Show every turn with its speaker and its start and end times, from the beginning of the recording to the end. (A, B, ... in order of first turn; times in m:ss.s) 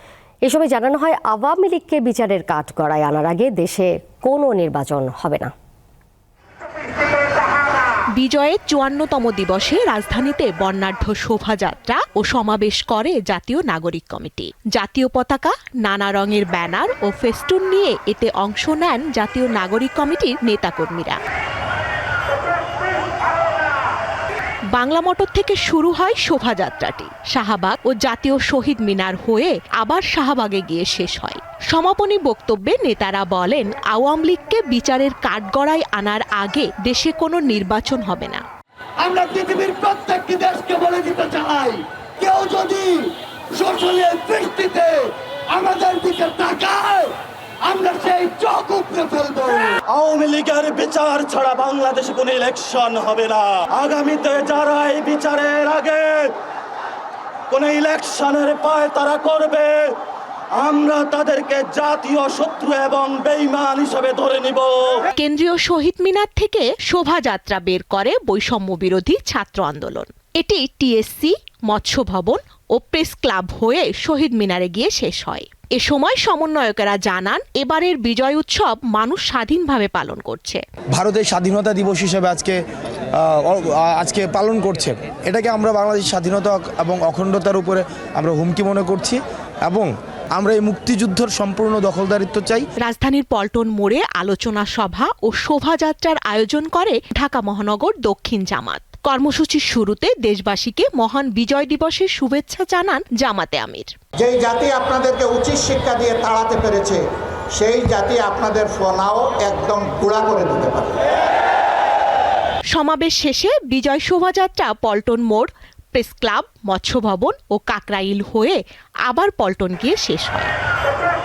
0:00.4-0:05.5 A
0:08.2-0:21.2 B
0:24.7-0:38.4 B
0:39.0-0:47.1 C
0:47.6-0:49.8 C
0:49.9-0:56.3 D
0:57.5-0:59.8 D
1:00.6-1:05.0 D
1:05.1-1:20.6 B
1:20.9-1:22.6 E
1:23.1-1:32.7 E
1:32.8-1:43.9 B
1:44.2-1:47.0 F
1:47.5-1:51.0 F
1:52.7-2:00.5 B